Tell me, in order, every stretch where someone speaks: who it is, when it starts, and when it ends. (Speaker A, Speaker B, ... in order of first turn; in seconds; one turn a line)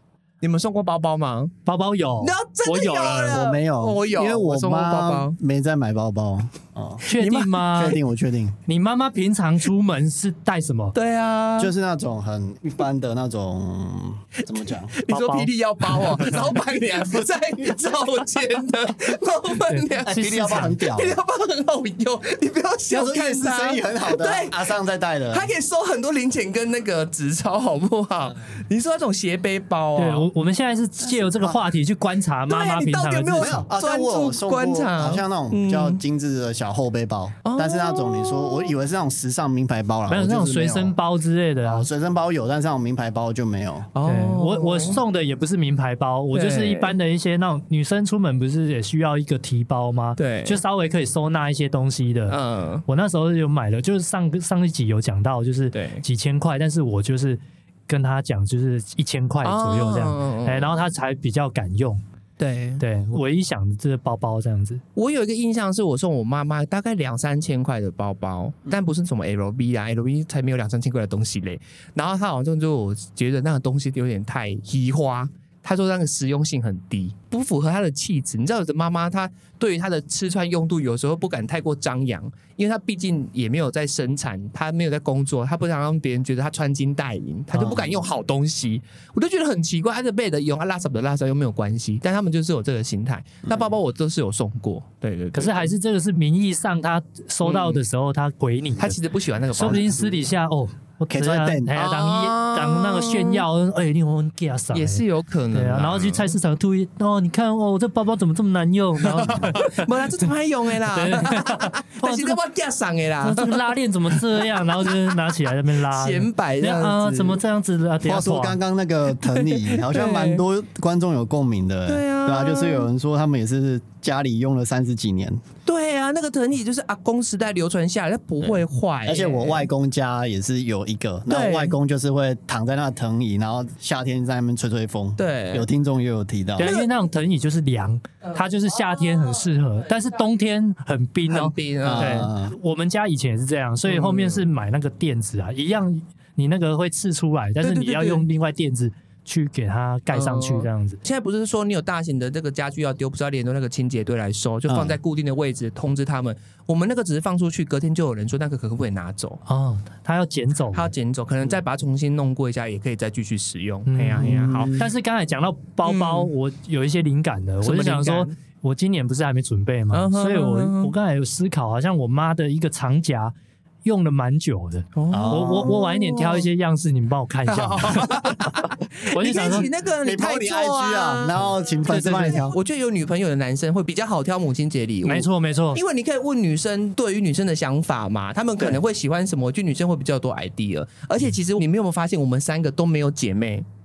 Speaker A: 0.4-1.5
Speaker B: 1.6-3.4
Speaker A: 2.2-5.4
Speaker C: 3.3-8.6
Speaker B: 7.0-8.0
Speaker B: 8.7-10.9
Speaker A: 10.9-11.7
Speaker C: 11.6-14.9
Speaker A: 14.5-24.7
Speaker B: 15.1-16.3
Speaker B: 19.7-20.9
Speaker C: 20.0-21.2
Speaker C: 22.9-25.5
Speaker A: 25.3-30.3
Speaker B: 30.0-33.7
Speaker C: 31.0-31.6
Speaker A: 32.5-36.0
Speaker C: 33.4-41.0
Speaker A: 37.4-38.7
Speaker B: 40.1-41.9
Speaker C: 41.6-43.9
Speaker A: 44.0-45.0
Speaker B: 44.0-62.0
Speaker A: 46.3-47.0
Speaker A: 50.2-50.6
Speaker A: 52.3-52.8
Speaker A: 55.7-56.0
Speaker A: 59.4-60.7
Speaker A: 62.4-62.8
Speaker B: 62.8-64.8
Speaker A: 65.0-95.7
Speaker B: 87.5-87.8
Speaker C: 87.6-88.0
Speaker B: 95.3-99.0
Speaker A: 97.5-97.8
Speaker A: 98.8-99.9
Speaker B: 99.5-109.9
Speaker C: 101.1-101.8
Speaker A: 101.8-103.5
Speaker A: 104.7-106.3
Speaker A: 109.2-114.4
Speaker B: 110.9-112.4
Speaker B: 113.2-118.6
Speaker A: 115.9-117.4
Speaker C: 118.0-125.4
Speaker A: 119.3-120.4
Speaker A: 121.9-122.9
Speaker A: 125.7-129.7
Speaker C: 129.1-136.7
Speaker A: 131.3-131.8
Speaker A: 135.2-135.7
Speaker B: 136.6-151.0
Speaker A: 136.6-136.9
Speaker A: 139.0-139.3
Speaker A: 141.3-142.3
Speaker C: 141.8-142.6
Speaker A: 143.9-144.4
Speaker A: 147.6-148.3
Speaker A: 150.1-159.4
Speaker C: 154.7-155.0
Speaker B: 159.5-160.9
Speaker A: 160.7-164.8
Speaker B: 163.9-173.3
Speaker C: 164.2-164.9
Speaker A: 165.8-166.3
Speaker A: 167.6-168.3
Speaker A: 169.9-170.9
Speaker B: 173.8-179.7
Speaker A: 175.0-176.5
Speaker C: 175.1-175.8
Speaker A: 177.5-181.4
Speaker C: 179.2-182.6
Speaker B: 181.9-182.4
Speaker A: 181.9-193.7
Speaker B: 185.1-185.8